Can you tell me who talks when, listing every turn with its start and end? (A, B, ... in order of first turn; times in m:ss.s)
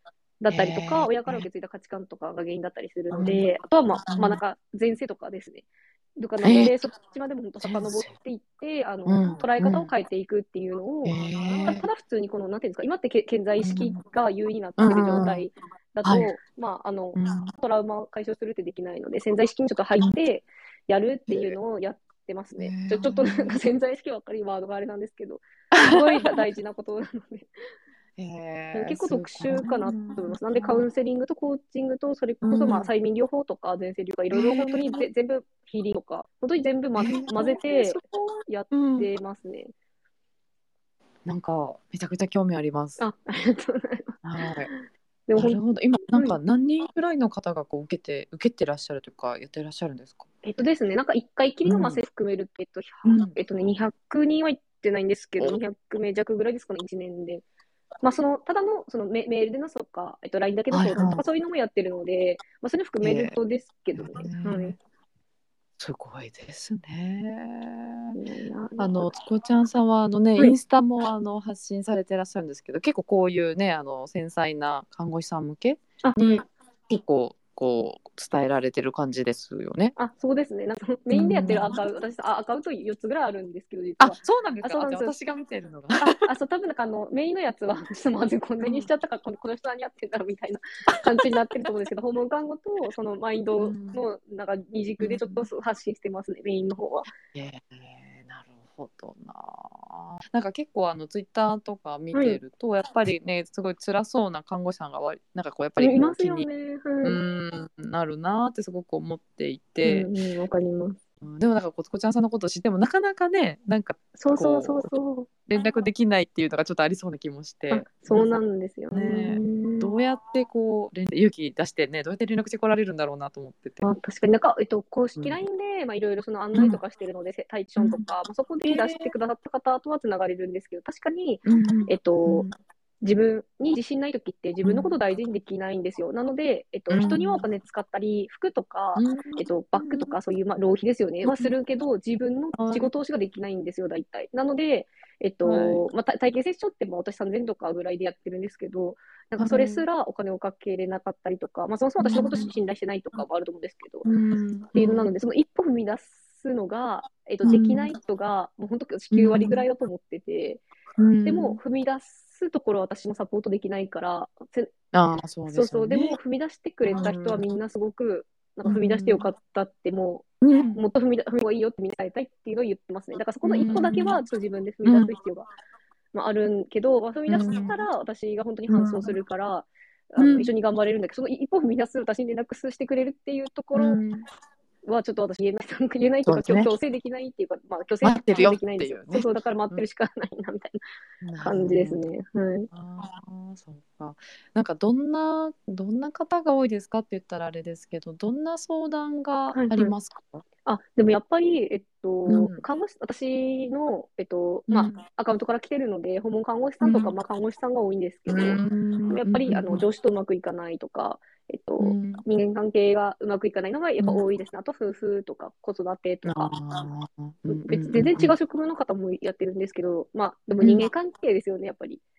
0:00.4-0:27.5 A
0:00.5-0:01.5 B
0:03.1-0:03.4 B
0:04.0-0:04.4 B
0:06.4-0:06.8 B
0:07.6-0:08.1 B
0:09.1-0:09.9 B
0:11.0-0:11.9 B
0:13.6-0:14.0 B
0:14.8-0:15.5 B
0:16.0-0:16.3 B
0:17.2-0:17.5 B
0:21.3-0:21.6 B
0:22.6-0:23.6 B
0:25.7-0:26.4 B
0:28.2-0:30.8 B
0:28.7-0:39.7 A
0:32.4-0:32.9 B
0:34.3-0:35.1 B
0:37.0-0:39.1 B
0:41.3-0:43.0 B
0:43.0-0:44.2 A
0:44.2-0:44.7 B
0:44.7-0:45.6 A
0:45.4-0:50.3 B
0:46.1-0:46.4 A
0:50.4-0:57.4 A
0:51.7-0:52.0 B
0:53.0-0:53.4 B
0:58.0-1:04.8 A
1:00.7-1:01.2 B
1:03.0-1:03.4 B
1:04.0-1:04.8 B
1:05.8-1:08.2 B
1:08.2-1:08.9 A
1:08.8-1:20.0 B
1:16.0-1:16.4 A
1:20.0-1:25.2 A
1:21.1-1:21.8 B
1:24.0-1:26.2 B
1:26.0-1:37.1 A
1:28.6-1:28.9 B
1:30.9-1:31.4 B
1:33.6-1:34.0 B
1:35.0-1:35.5 B
1:37.3-1:46.5 B
1:42.1-1:42.4 A
1:45.8-1:47.2 A
1:47.0-1:50.1 B
1:49.8-1:51.0 A
1:51.2-1:54.9 B
1:54.2-1:55.3 A
1:55.5-1:58.4 B
1:57.7-1:59.9 A
1:58.9-2:03.8 B
2:03.8-2:12.4 A
2:07.8-2:08.0 B
2:08.6-2:09.1 B
2:11.4-2:12.5 B
2:13.0-2:34.1 A
2:14.6-2:14.9 B
2:16.9-2:17.4 B
2:19.0-2:20.1 B
2:21.2-2:21.5 B
2:22.5-2:22.9 B
2:25.4-2:25.8 B
2:29.4-2:29.8 B
2:32.0-2:32.5 B
2:34.0-2:35.1 B
2:34.7-2:40.6 A
2:37.4-2:37.9 B
2:39.1-2:39.6 B
2:41.0-2:41.6 B
2:41.2-2:44.7 A
2:44.9-2:46.2 B
2:45.5-2:55.5 A
2:46.9-2:47.5 B
2:48.6-2:49.2 B
2:50.4-2:50.8 B
2:53.4-2:54.2 B
2:54.8-2:55.1 B
2:56.1-3:04.0 A
2:57.3-2:57.8 B
2:58.7-2:59.1 B
3:00.2-3:00.5 B
3:03.8-3:04.2 B
3:04.8-3:10.8 A
3:06.3-3:06.7 B
3:08.0-3:09.8 B
3:11.2-3:12.0 B
3:11.4-3:12.7 A
3:12.7-3:20.4 B
3:19.5-3:19.9 A
3:20.7-3:36.6 A
3:22.3-3:22.6 B
3:24.7-3:25.0 B
3:26.8-3:27.1 B
3:28.3-3:29.8 B
3:31.8-3:32.2 B
3:36.2-3:38.4 B
3:37.5-3:42.0 A
3:40.6-3:40.9 B